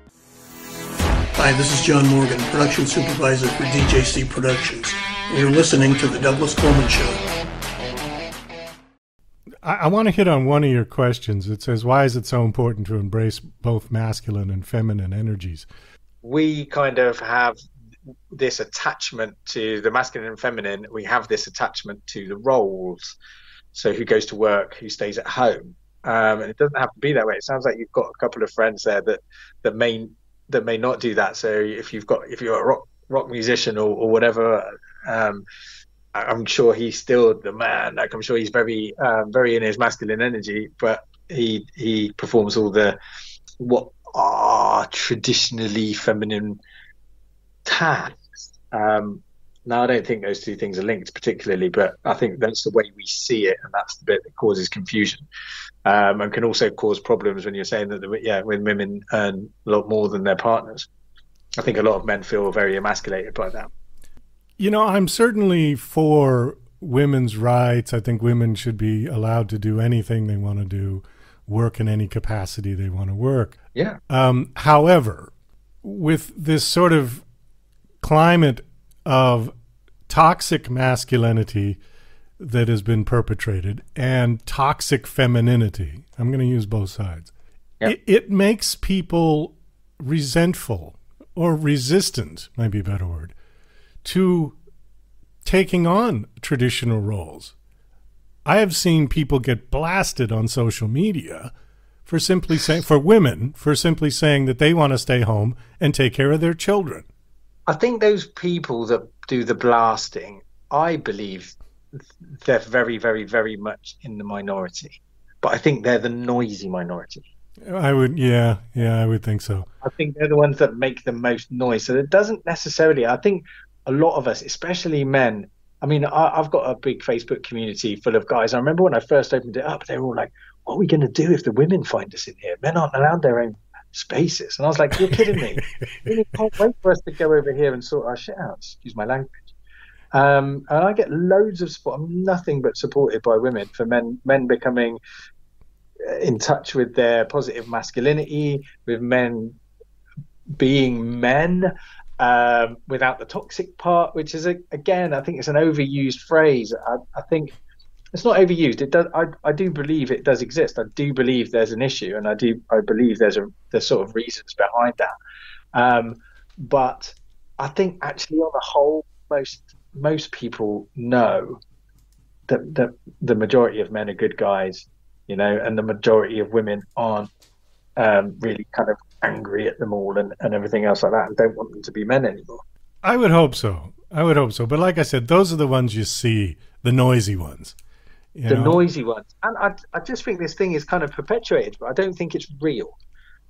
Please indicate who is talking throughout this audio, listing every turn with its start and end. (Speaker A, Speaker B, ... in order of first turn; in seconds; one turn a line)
Speaker A: 1.4-7.2
Speaker B: 9.6-15.7
Speaker C: 16.2-17.6
Speaker C: 18.3-23.1
Speaker C: 23.7-35.4
Speaker C: 36.1-43.0
Speaker C: 43.6-46.6
Speaker C: 47.6-55.2
Speaker C: 55.8-60.9
Speaker C: 61.6-63.7
Speaker B: 64.6-73.5
Speaker B: 74.1-75.3
Speaker B: 75.8-77.2
Speaker B: 78.0-79.5
Speaker B: 80.1-81.8
Speaker B: 82.4-87.3
Speaker B: 87.8-93.3
Speaker B: 94.0-94.5
Speaker B: 95.4-97.5
Speaker B: 98.4-101.5
Speaker B: 102.0-107.0
Speaker C: 107.7-117.2
Speaker B: 117.7-119.7
Speaker C: 119.8-139.3
Speaker B: 135.0-135.4
Speaker C: 140.1-145.0
Speaker C: 146.0-149.6
Speaker C: 150.6-157.5
Speaker C: 158.1-165.1
Speaker C: 165.7-171.6
Speaker C: 172.5-177.3
Speaker C: 178.0-182.6
Speaker B: 183.0-187.8
Speaker B: 188.3-188.8
Speaker C: 188.5-193.0